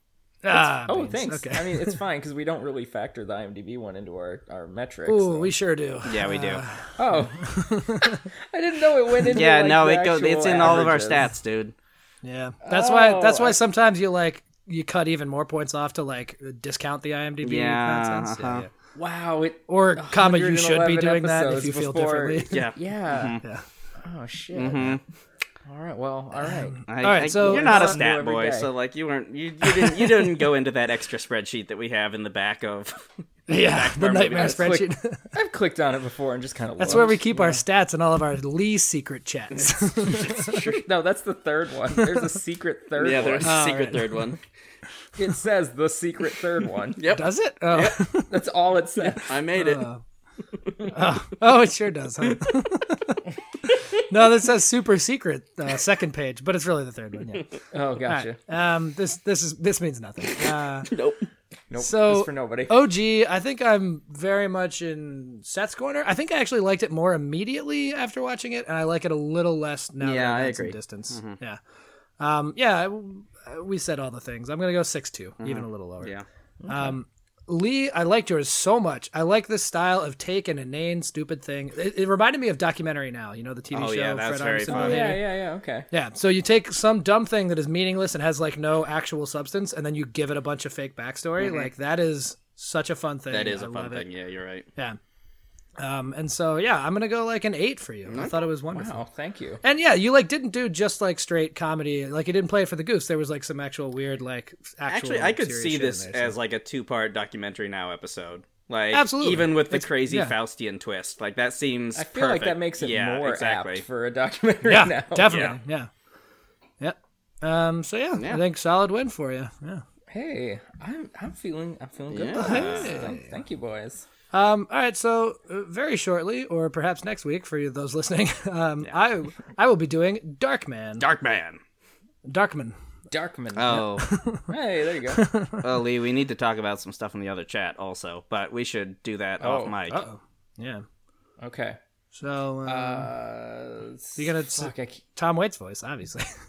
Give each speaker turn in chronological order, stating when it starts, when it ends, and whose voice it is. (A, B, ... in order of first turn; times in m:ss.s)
0:00.4-0:02.0 A
0:00.5-0:05.5 B
0:05.1-0:08.2 A
0:06.0-0:06.6 C
0:07.0-0:11.2 B
0:09.3-0:11.7 C
0:12.2-0:18.7 A
0:12.6-0:13.6 B
0:17.4-0:18.7 C
0:19.0-0:23.4 B
0:19.7-0:22.6 A
0:22.5-0:23.4 C
0:24.0-0:25.0 B
0:24.5-0:25.0 C
0:25.6-0:26.8 B
0:26.5-0:28.0 A
0:26.9-0:34.7 C
0:27.3-0:28.7 B
0:33.5-0:35.2 A
0:34.4-0:37.6 B
0:36.8-0:40.6 A
0:39.5-0:40.7 C
0:40.3-0:43.6 B
0:43.0-0:44.4 C
0:43.4-0:44.3 A
0:45.2-0:47.0 B
0:47.0-0:48.0 C
0:47.0-0:48.4 A
0:48.3-0:49.4 B
0:49.1-0:50.0 A
0:49.3-0:49.9 C
0:50.9-0:53.2 A
0:53.9-0:57.6 A
0:57.7-0:58.4 B
0:58.1-1:01.0 A
1:00.9-1:01.2 C
1:01.7-1:02.7 B
1:01.8-1:11.6 A
1:10.0-1:11.4 C
1:12.2-1:16.1 A
1:15.4-1:16.2 C
1:16.6-1:16.9 B
1:16.7-1:25.3 A
1:23.7-1:25.2 C
1:24.7-1:25.8 B
1:25.9-1:34.0 A
1:31.4-1:31.7 C
1:33.3-1:34.7 C
1:35.8-1:39.0 A
1:38.1-1:38.4 C
1:38.7-1:39.6 B
1:39.6-1:46.3 A
1:44.9-1:53.8 C
1:48.9-1:50.3 A
1:51.9-1:55.5 B
1:54.6-1:55.9 A
1:55.2-1:55.6 C
1:56.8-1:59.8 A
1:58.2-1:58.4 C
2:00.1-2:04.0 B
2:02.1-2:03.0 C
2:02.3-2:03.2 A
2:04.3-2:11.0 A
2:11.0-2:11.6 C
2:12.3-2:12.7 A
2:13.1-2:14.0 B
2:13.5-2:14.1 C
2:13.9-2:14.5 A
2:14.5-2:15.2 B
2:15.1-2:15.7 A
2:15.6-2:20.0 C
2:19.4-2:19.7 B
2:19.9-2:20.8 A
2:21.4-2:21.8 B
2:22.1-2:23.1 A
2:22.6-2:25.0 B
2:24.2-2:26.3 A